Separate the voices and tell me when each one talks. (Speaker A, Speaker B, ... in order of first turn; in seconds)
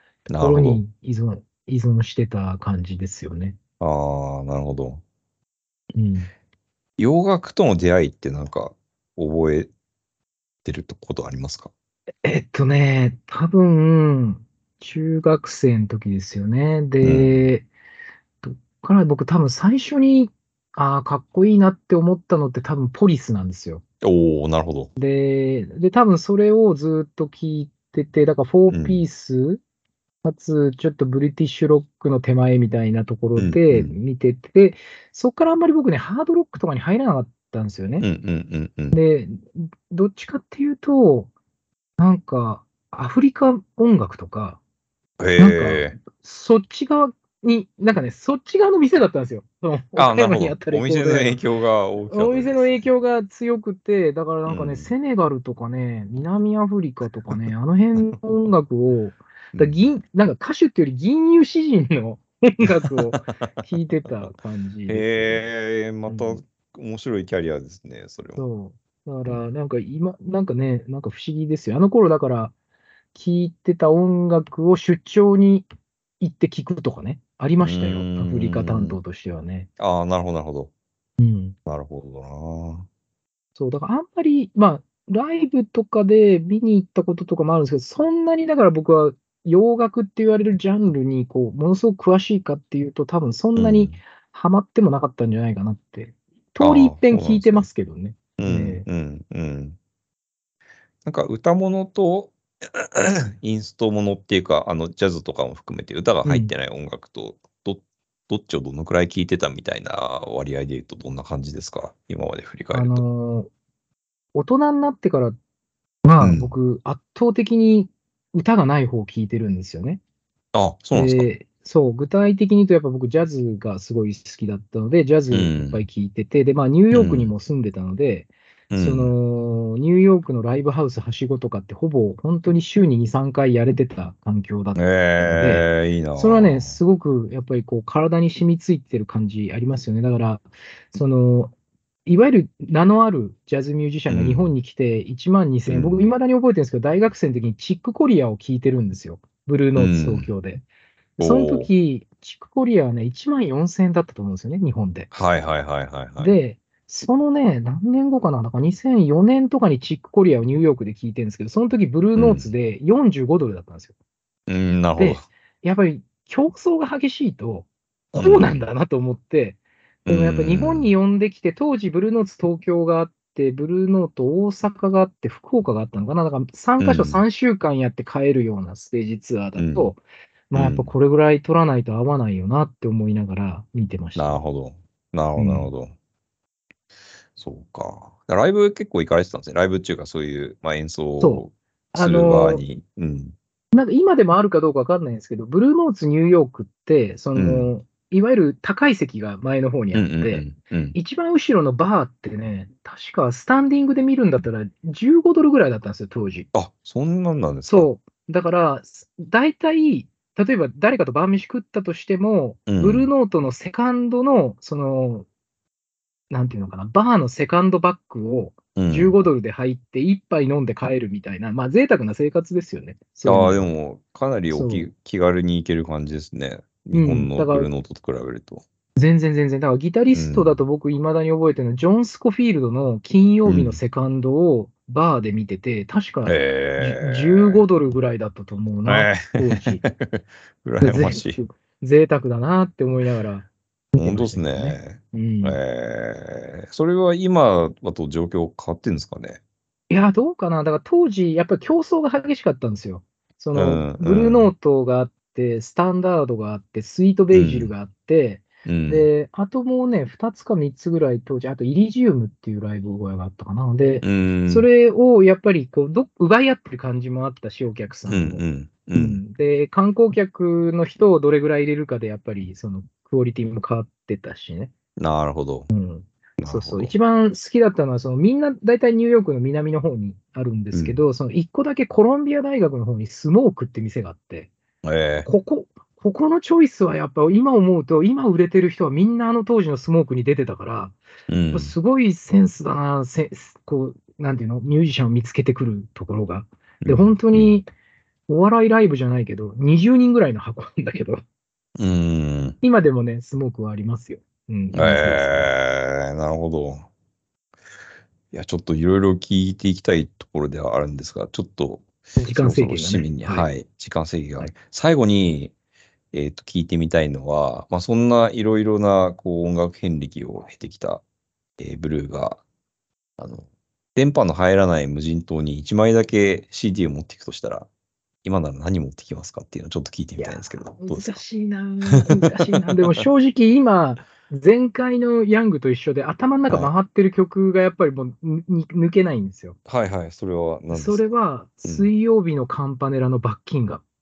Speaker A: 0.3-0.8, 3.8-5.0, 7.0-9.7, 10.6-11.7, 17.0-17.4, 24.0-24.9, 28.7-29.0, 33.4-34.0, 38.0-39.0, 45.2-46.0, 50.0-52.9, 54.5-54.9, 59.5-59.9, 63.1-64.3, 64.9-68.4, 77.6-79.0, 79.8-80.7, 81.7-82.9, 93.5-94.0, 96.6-97.7, 98.4-99.8, 101.0-113.0, 116.2-116.5, 120.5-121.3, 125.3-125.8, 126.9-127.3, 128.7-129.1, 134.8-136.8, 144.1-144.5, 145.7-146.1, 149.7-150.3, 151.2-151.7, 155.1-156.3, 162.2-162.5, 164.5-165.3, 168.1-168.6, 170.1-170.9, 176.8-177.2, 179.6-179.9, 180.5-180.9, 184.2-185.9, 187.3-193.3, 197.3-197.7, 199.9-200.9, 206.5-207.9, 212.7-213.1, 218.8-219.2, 223.2-228.6, 230.1-230.6, 233.4-233.8, 236.2-237.6, 238.8-241.4, 243.9-249.4, 253.5-254.5, 257.3-257.7, 258.6-259.1, 264.0-264.7, 268.1-269.2, 275.0-275.7, 276.4-276.9, 280.7-281.0, 284.8-285.3, 291.3-291.7, 296.8-297.6, 301.8-302.6, 304.7-306.9, 308.3-315.5, 316.1-321.0, 321.6-322.4, 323.2-327.7, 328.2-331.2, 339.7-341.0, 341.6-341.9
Speaker B: 0.4-3.6, 5.9-6.3, 12.2-17.7, 18.4-23.8, 25.0-29.6, 30.2-38.1, 38.9-41.3, 42.0-44.6, 45.4-51.4, 52.1-65.4, 66.1-66.4, 68.4-72.5, 73.1-75.7, 76.2-79.7, 81.2-81.5, 83.5-98.8, 106.2-106.5, 112.7-113.5, 114.3-115.4, 116.0-120.0, 120.9-141.5, 142.1-150.6, 151.2-155.1, 156.2-163.9, 164.9-184.4, 185.3-185.7, 191.2-192.6, 193.7-206.5, 207.7-215.3, 216.3-223.7, 224.5-224.9, 226.9-227.7, 229.0-239.8, 240.8-245.6, 249.9-274.7, 275.7-284.5, 285.2-290.9, 291.5-297.7, 298.3-301.2, 302.6-305.5, 312.2-313.5, 330.2-339.6, 340.7-343.8